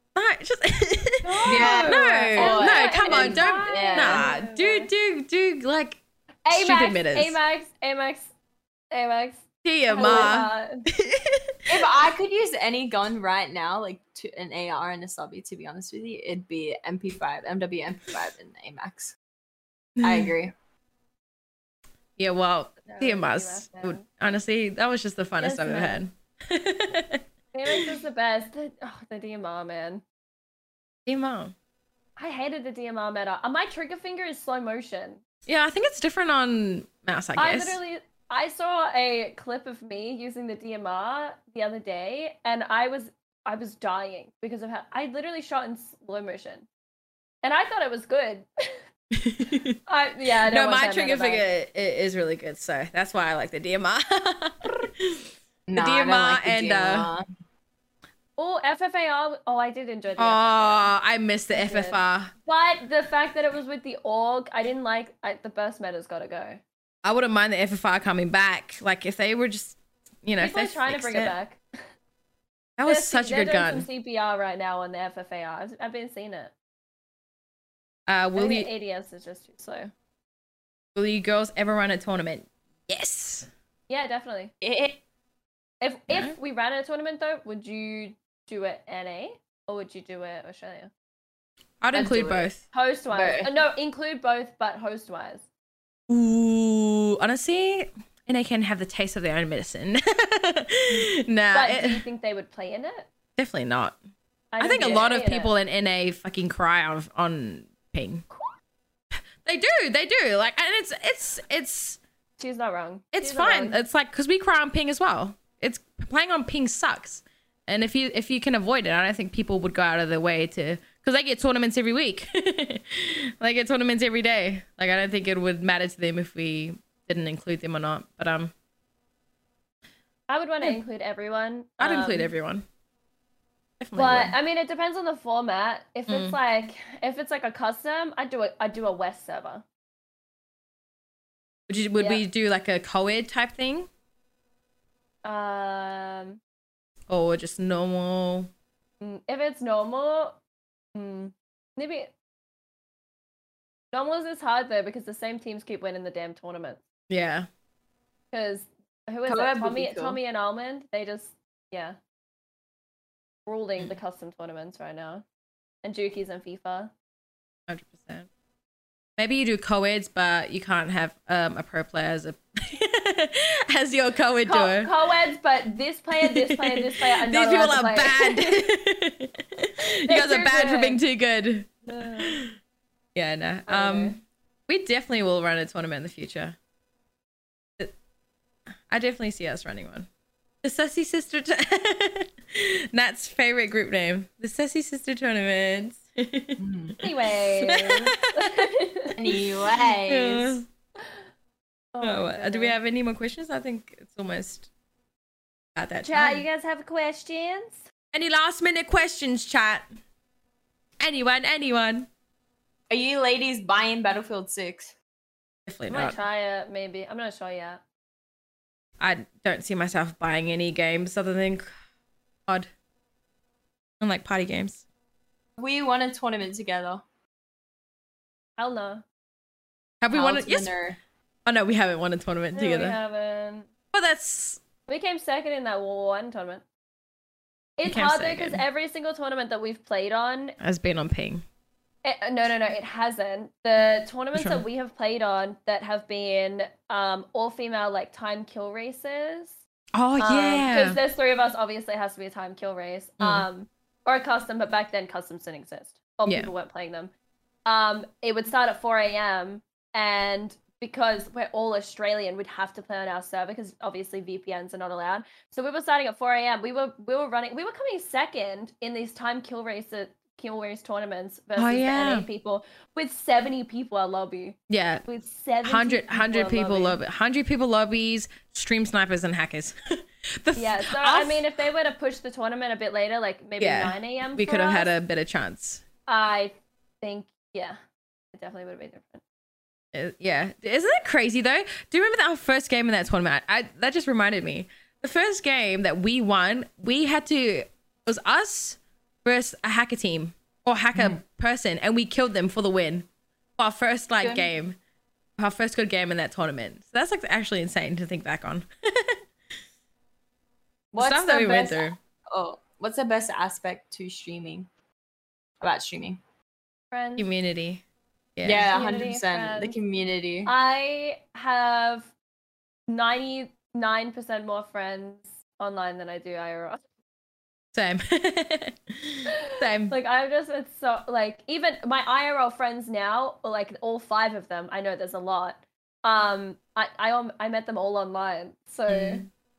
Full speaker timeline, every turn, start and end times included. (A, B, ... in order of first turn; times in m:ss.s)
0:00.2-0:07.4 A
0:01.2-0:04.9 B
0:01.4-0:04.3 C
0:06.5-0:08.3 B
0:08.9-0:10.9 B
0:09.6-0:11.4 A
0:10.0-0:10.3 C
0:11.7-0:19.2 C
0:20.0-0:20.3 A
0:20.0-0:20.5 C
0:22.2-0:27.9 A
0:22.9-0:24.1 B
0:25.4-0:26.0 B
0:27.5-0:30.0 B
0:31.1-0:31.5 A
0:32.2-0:35.2 B
0:35.5-0:37.8 A
0:37.4-0:46.7 B
0:47.4-0:48.8 B
0:49.1-0:49.8 A
0:49.9-0:51.4 B
0:50.5-0:55.2 A
0:55.7-0:57.3 C
0:55.8-0:57.1 A
0:58.4-1:00.9 B
1:00.2-1:02.3 A
1:01.5-1:06.6 B
1:07.0-1:11.4 A
1:10.4-1:11.6 B
1:12.8-1:13.9 A
1:12.9-1:16.5 B
1:18.1-1:18.7 A
1:18.4-1:19.9 B
1:21.0-1:23.5 A
1:23.9-1:24.5 B
1:24.6-1:25.0 C
1:25.8-1:30.9 B
1:26.1-1:26.4 A
1:31.8-1:32.6 A
1:31.9-1:32.5 C
1:32.7-1:35.4 B
1:33.1-1:33.5 C
1:36.1-1:42.0 A
1:41.5-1:43.1 B
1:43.4-1:44.0 A
1:44.5-1:45.5 B
1:44.6-1:48.2 A
1:44.8-1:45.1 C
1:49.4-1:52.0 A
1:52.4-1:53.8 B
1:53.1-2:08.5 A
2:10.3-2:12.3 B
2:11.8-2:12.6 A
2:13.8-2:14.4 A
2:14.0-2:19.6 B
2:16.1-2:16.4 A
2:21.7-2:23.9 A
2:22.0-2:22.2 B
2:25.2-2:26.4 B
2:27.1-2:28.5 A
2:29.0-2:30.4 B
2:31.0-2:32.1 B
2:33.9-2:36.8 B
2:37.1-2:37.5 A
2:38.3-2:42.0 B
2:39.3-2:40.2 C
2:43.5-2:45.2 B
2:45.8-2:46.9 B
2:47.7-2:48.3 A
2:49.2-2:54.9 A
2:54.5-2:58.6 B
2:56.2-3:02.6 A
3:00.1-3:01.0 B
3:01.9-3:02.4 B
3:03.2-3:06.6 A
3:03.7-3:04.2 B
3:08.9-3:10.1 A
3:10.6-3:18.7 A
3:16.6-3:17.0 C
3:17.0-3:19.2 B
3:19.2-3:20.6 C
3:19.8-3:20.7 A
3:21.9-3:22.8 B
3:22.0-3:24.7 A
3:25.8-3:26.4 A
3:26.0-3:27.8 B
3:28.1-3:29.8 A
3:31.0-3:32.1 A
3:32.9-3:34.9 C
3:35.7-3:36.2 A
3:35.9-3:37.8 B
3:39.0-3:41.7 A
3:44.0-3:44.8 A
3:45.6-3:47.0 C
3:48.6-3:49.0 B
3:50.0-3:50.7 A
3:50.1-3:51.0 C
3:51.5-3:53.0 A
3:52.5-3:53.7 B
3:53.9-3:54.6 A
3:54.9-3:56.6 B
3:57.8-4:00.6 B
3:57.9-3:58.6 A
4:00.6-4:01.4 A
4:02.0-4:09.6 B
4:04.4-4:04.6 A
4:10.0-4:11.0 A
4:10.2-4:17.1 B
4:13.2-4:13.5 A
4:16.3-4:16.5 A
4:17.7-4:37.0 B
4:31.6-4:32.3 A
4:34.7-4:35.0 A
4:35.6-4:41.5 A
4:40.6-4:44.9 B
4:43.6-4:45.8 A
4:46.1-4:47.8 B
4:48.3-4:49.2 B
4:49.9-5:04.8 A
5:04.2-5:04.5 C
5:05.4-5:09.2 A
5:10.9-5:14.7 C
5:11.0-5:12.0 A
5:15.6-5:16.2 C
5:16.9-5:17.3 B
5:17.2-5:17.8 A
5:18.4-5:18.8 A
5:18.4-5:20.5 C
5:18.7-5:19.8 B
5:20.5-5:22.1 B
5:22.9-5:26.8 B
5:27.7-5:30.0 A
5:29.3-5:39.2 B
5:38.9-5:39.3 A